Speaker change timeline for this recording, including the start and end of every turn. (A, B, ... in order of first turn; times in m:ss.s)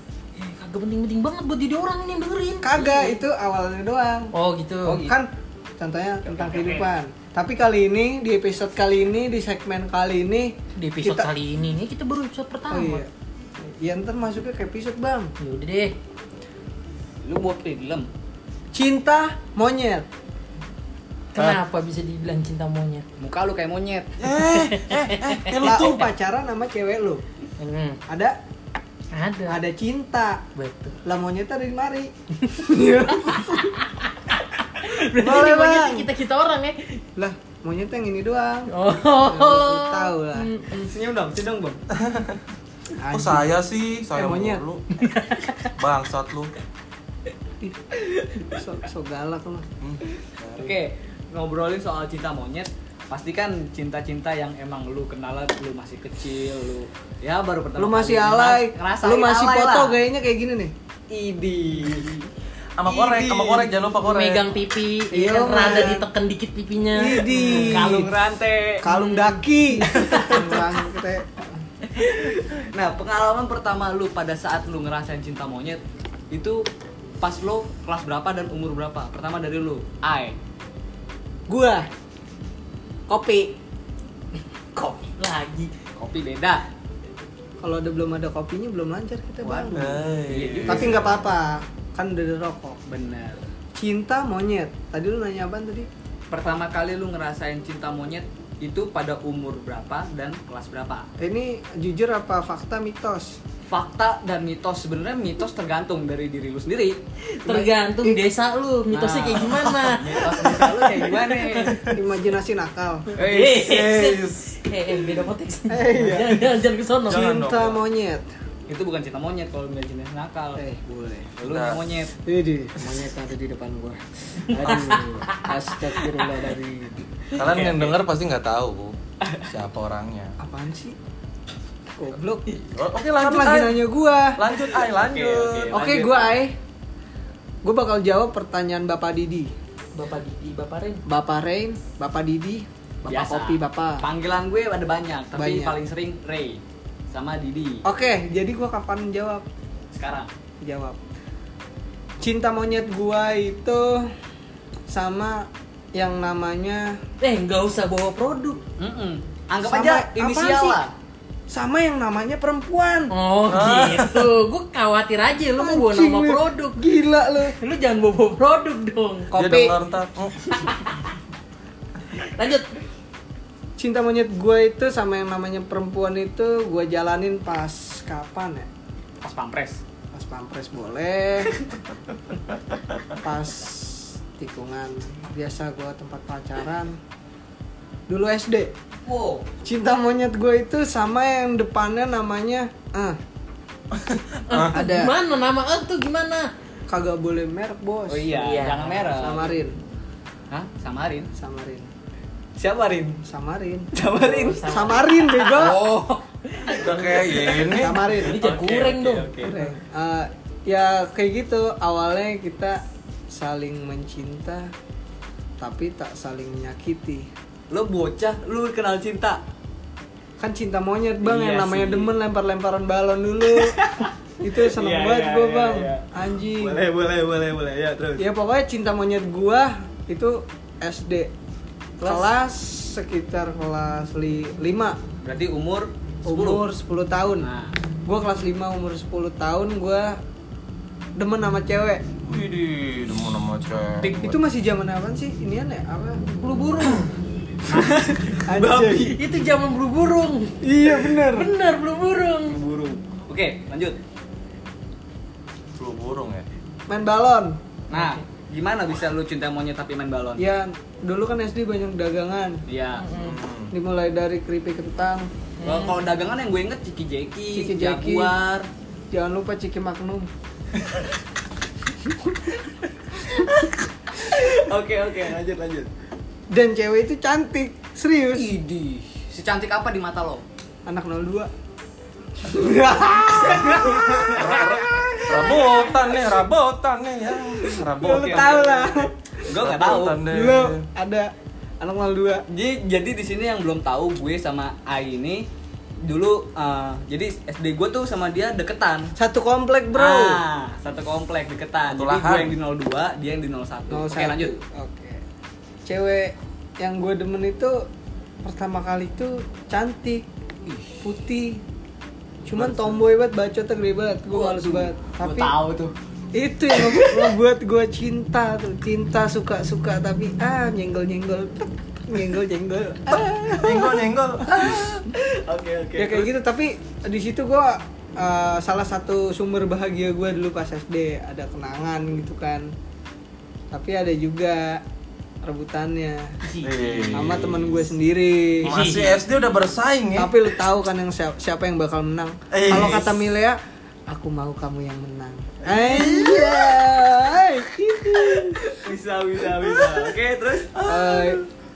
0:00.4-0:03.2 A
0:02.6-0:04.3 B
0:04.3-0:05.0 A
0:04.9-0:05.2 C
0:05.0-0:11.3 B
0:06.2-0:06.9 C
0:10.8-0:13.0 A
0:12.7-0:13.1 B
0:13.6-0:15.3 B
0:15.4-0:15.9 A
0:17.2-0:18.1 C
0:18.7-0:20.1 B
0:21.3-0:23.0 A
0:23.2-0:24.1 C
0:24.2-0:26.1 D
0:24.5-0:25.6 A
0:25.6-0:27.2 B
0:27.6-0:28.0 A
0:28.1-0:28.4 B
0:29.1-0:29.6 A
0:29.5-0:30.4 B
0:30.6-0:31.0 A
0:31.0-0:33.8 B
0:33.2-0:37.0 A
0:35.1-0:36.1 B
0:37.2-0:40.5 B
0:38.7-0:40.9 A
0:40.9-0:41.8 C
0:41.9-0:42.4 D
0:43.0-0:43.5 B
0:43.1-0:44.8 D
0:44.2-0:44.6 B
0:45.0-0:45.7 A
0:45.8-0:46.5 D
0:48.0-0:48.5 C
0:48.5-0:49.7 B
0:49.8-0:50.8 D
0:50.6-1:00.0 C
0:57.8-1:00.7 B
1:01.1-1:02.3 C
1:02.8-1:04.5 D
1:02.9-1:03.7 C
1:04.0-1:08.1 A
1:05.1-1:06.1 B
1:07.0-1:08.1 B
1:07.3-1:08.8 C
1:08.8-1:11.6 B
1:08.9-1:10.3 A
1:11.9-1:15.8 C
1:16.3-1:16.6 C
1:17.2-1:20.4 C
1:21.5-1:21.9 B
1:23.1-1:23.6 B
1:24.8-1:25.7 A
1:26.0-1:26.6 C
1:27.6-1:30.0 B
1:29.4-1:31.3 C
1:29.7-1:31.2 D
1:30.7-1:32.8 B
1:32.9-1:33.4 C
1:33.8-1:35.9 B
1:36.3-1:41.1 C
1:41.2-1:43.4 B
1:43.7-1:47.0 C
1:47.4-1:52.0 A
1:47.5-1:48.2 B
1:48.9-1:51.9 C
1:50.3-1:50.9 B
1:51.9-1:53.1 B
1:53.2-1:53.7 C
1:53.2-1:57.3 A
1:53.5-1:54.7 D
1:55.7-1:56.6 B
1:57.1-1:57.8 D
1:57.1-1:58.3 B
1:58.7-2:00.6 C
2:00.6-2:01.3 B
2:01.4-2:02.1 C
2:01.4-2:01.8 D
2:02.3-2:07.1 B
2:04.6-2:05.5 A
2:07.3-2:08.0 C
2:07.4-2:10.4 D
2:10.4-2:11.0 B
2:12.0-2:12.5 B
2:12.5-2:15.8 D
2:13.2-2:14.4 B
2:14.7-2:16.4 C
2:15.7-2:16.6 B
2:17.6-2:19.5 B
2:20.0-2:21.0 A
2:21.1-2:24.0 B
2:23.1-2:27.9 C
2:25.4-2:25.8 B
2:27.8-2:29.4 B
2:29.9-2:30.3 C
2:30.6-2:31.0 B
2:32.2-2:34.1 B
2:34.9-2:37.0 B
2:37.2-2:38.6 A
2:38.8-2:40.9 C
2:39.6-2:40.8 B
2:41.5-2:43.1 B
2:43.1-2:46.9 A
2:43.5-2:44.3 D
2:45.6-2:47.6 B
2:47.6-2:49.3 A
2:49.3-2:49.7 B
2:49.3-2:50.7 D
2:52.1-2:52.7 A
2:53.8-2:58.7 B
2:59.2-2:59.8 C
3:00.1-3:01.6 B
3:03.1-3:07.0 B
3:08.1-3:08.7 B
3:09.1-3:09.5 C
3:09.6-3:13.2 B
3:13.9-3:14.8 D
3:14.5-3:16.5 A
3:14.7-3:15.1 B
3:16.9-3:18.3 B
3:18.1-3:19.6 C
3:18.3-3:19.2 A
3:19.2-3:19.7 B
3:20.5-3:21.3 C
3:21.4-3:21.9 B
3:22.6-3:23.2 C
3:23.2-3:23.9 B
3:23.9-3:24.8 C
3:24.2-3:29.7 A
3:24.6-3:25.8 B
3:26.7-3:28.0 D
3:27.6-3:28.4 B
3:28.0-3:29.6 C
3:29.4-3:34.7 B
3:35.6-3:37.3 B
3:37.7-3:39.4 C
3:40.4-3:43.8 B
3:41.2-3:42.2 C
3:43.5-3:48.3 C
3:44.4-3:46.8 B
3:48.2-3:51.3 B
3:52.0-3:55.0 B
3:52.0-3:52.3 C
3:55.2-3:56.6 C
3:56.3-3:57.5 B
3:57.4-3:57.7 C
3:58.0-4:00.2 B
4:01.2-4:02.1 B
4:02.2-4:04.4 D
4:04.1-4:07.1 B
4:07.7-4:09.2 C
4:07.7-4:09.2 B
4:09.1-4:12.6 A
4:10.6-4:11.5 B
4:12.5-4:14.0 C
4:15.8-4:16.5 D
4:16.9-4:17.6 B
4:17.9-4:20.5 C
4:17.9-4:18.2 A
4:20.4-4:22.6 B
4:22.7-4:23.1 C
4:23.0-4:23.4 A
4:23.1-4:23.7 D
4:23.7-4:25.3 B
4:25.6-4:26.0 A
4:25.6-4:28.7 C
4:27.5-4:28.3 B
4:29.1-4:30.3 B
4:34.1-4:35.9 C
4:36.5-4:38.5 B
4:38.3-4:40.4 C
4:40.9-4:41.5 B
4:42.4-4:46.0 B
4:43.4-4:44.3 C
4:44.3-4:48.6 D
4:47.9-4:50.2 C
4:48.0-4:49.3 B
4:49.5-4:50.8 D
4:50.2-4:52.4 B
4:52.5-4:55.4 C
4:56.0-4:59.1 C
4:59.2-5:00.4 B
5:00.0-5:04.6 C
5:01.9-5:02.6 D
5:03.9-5:05.2 B
5:05.8-5:07.9 B
5:08.4-5:10.2 B
5:10.7-5:11.0 C
5:11.0-5:11.6 B
5:12.4-5:15.5 B
5:12.5-5:13.0 C
5:14.3-5:15.9 C
5:16.3-5:24.9 B
5:16.7-5:17.4 C
5:23.5-5:25.1 D
5:25.1-5:26.4 C
5:26.0-5:32.7 B
5:33.7-5:34.8 B
5:35.4-5:36.4 B
5:36.4-5:37.1 A
5:36.6-5:38.0 D
5:37.1-5:38.8 B
5:38.6-5:40.4 D
5:38.6-5:39.2 A
5:40.2-5:48.8 B
5:42.5-5:43.2 D
5:45.6-5:46.8 D
5:48.6-5:50.7 C
5:50.7-5:51.5 D
5:50.9-5:51.4 B